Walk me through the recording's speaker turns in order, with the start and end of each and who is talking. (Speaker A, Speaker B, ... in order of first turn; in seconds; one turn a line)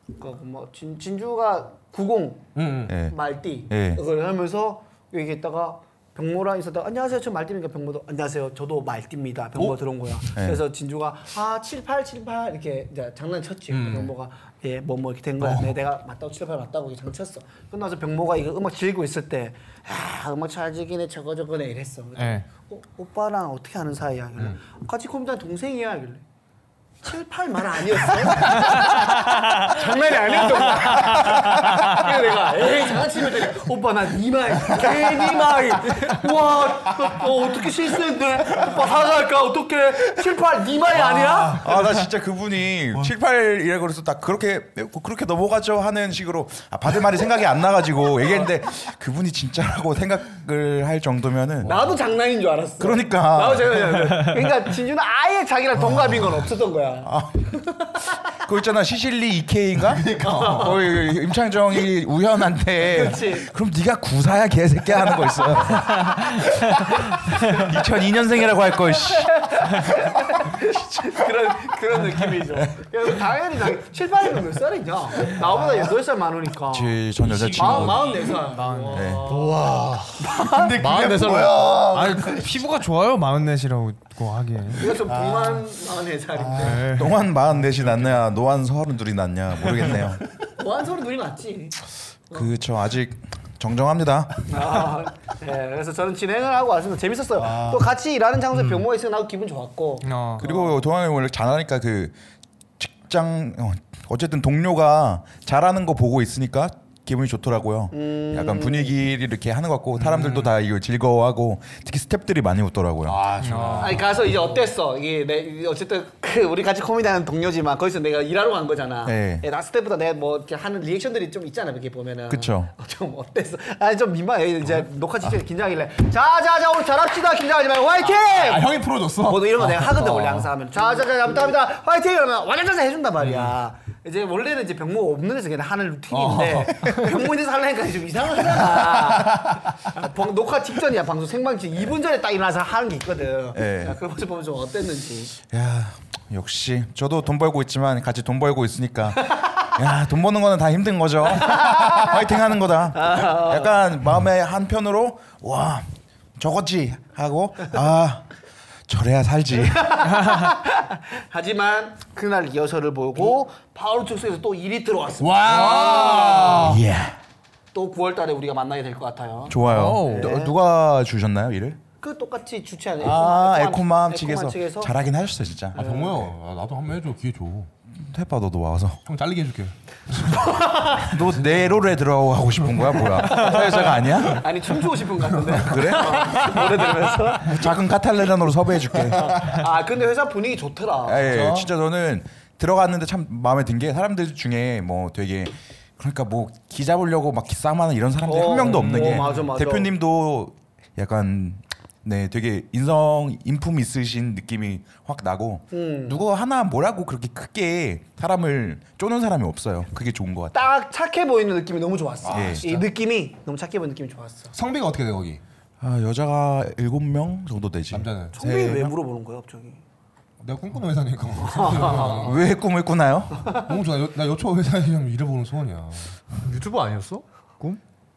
Speaker A: 0.2-2.5
Speaker B: 2.5-2.9
Speaker C: 2.9-3.1
Speaker A: 3.0-26.2
Speaker C: 3.7-4.0
Speaker C: 10.3-10.6
Speaker B: 13.7-14.1
Speaker B: 15.4-15.7
Speaker D: 22.2-22.4
Speaker A: 27.0-41.6
Speaker D: 28.5-29.7
Speaker D: 30.5-32.0
Speaker B: 34.8-35.4
Speaker B: 41.0-41.7
Speaker C: 41.5-51.7
Speaker B: 51.6-51.9
Speaker A: 51.6-58.4
Speaker C: 52.8-54.0
Speaker C: 57.0-57.6
Speaker C: 58.3-69.6
Speaker B: 59.8-60.8
Speaker A: 60.2-60.8
Speaker A: 62.8-63.5
Speaker A: 68.9-79.7
Speaker C: 70.5-71.0
Speaker C: 76.7-78.1
Speaker B: 77.4-77.9
Speaker D: 77.6-79.2
Speaker C: 78.9-79.2
Speaker E: 79.2-81.8
Speaker A: 80.2-80.8
Speaker B: 80.4-82.5
Speaker D: 81.9-84.8
Speaker A: 84.8-86.8
Speaker B: 84.9-85.6
Speaker B: 86.3-87.0
Speaker D: 86.6-87.2
Speaker C: 86.8-90.2
Speaker B: 87.6-88.2
Speaker A: 90.5-92.5
Speaker C: 92.3-94.8
Speaker A: 94.5-100.8
Speaker B: 97.4-97.9
Speaker D: 100.0-100.4
Speaker C: 100.4-102.2
Speaker C: 102.8-113.2
Speaker A: 107.9-109.0
Speaker B: 110.0-110.5
Speaker B: 113.0-114.1
Speaker D: 113.4-114.0
Speaker A: 113.8-145.3
Speaker C: 119.0-119.4
Speaker C: 122.3-122.7
Speaker B: 128.1-130.5
Speaker B: 133.2-133.5
Speaker B: 136.1-137.1
Speaker B: 138.4-139.6
Speaker C: 143.5-144.0
Speaker C: 145.5-155.8
Speaker A: 149.3-149.6
Speaker A: 151.3-152.2
Speaker A: 152.9-153.8
Speaker C: 156.4-158.2
Speaker C: 158.9-160.1
Speaker A: 159.5-166.8
Speaker B: 165.2-166.8
Speaker C: 166.6-167.2
Speaker A: 167.7-170.6
Speaker C: 169.5-171.8
Speaker D: 169.6-170.3
Speaker A: 172.0-174.9
Speaker C: 173.0-175.8
Speaker A: 175.7-176.3
Speaker B: 175.7-177.7
Speaker C: 177.9-179.0
Speaker B: 179.1-180.5
Speaker A: 180.3-181.2
Speaker C: 181.0-184.5
Speaker B: 181.2-181.8
Speaker B: 182.8-183.4
Speaker A: 183.3-187.6
Speaker C: 185.5-186.7
Speaker C: 187.3-189.6
Speaker A: 189.0-191.5
Speaker C: 191.0-210.6
Speaker B: 191.2-191.7
Speaker A: 198.2-199.9
Speaker B: 198.6-199.5
Speaker A: 205.7-206.2
Speaker A: 210.5-214.5
Speaker B: 212.2-212.8
Speaker C: 212.3-212.7
Speaker B: 214.5-215.4
Speaker C: 215.8-218.9
Speaker B: 217.9-218.3
Speaker A: 218.3-219.8
Speaker B: 220.4-222.4
Speaker A: 221.5-222.3
Speaker C: 221.9-223.5
Speaker B: 223.6-226.2
Speaker E: 226.4-227.8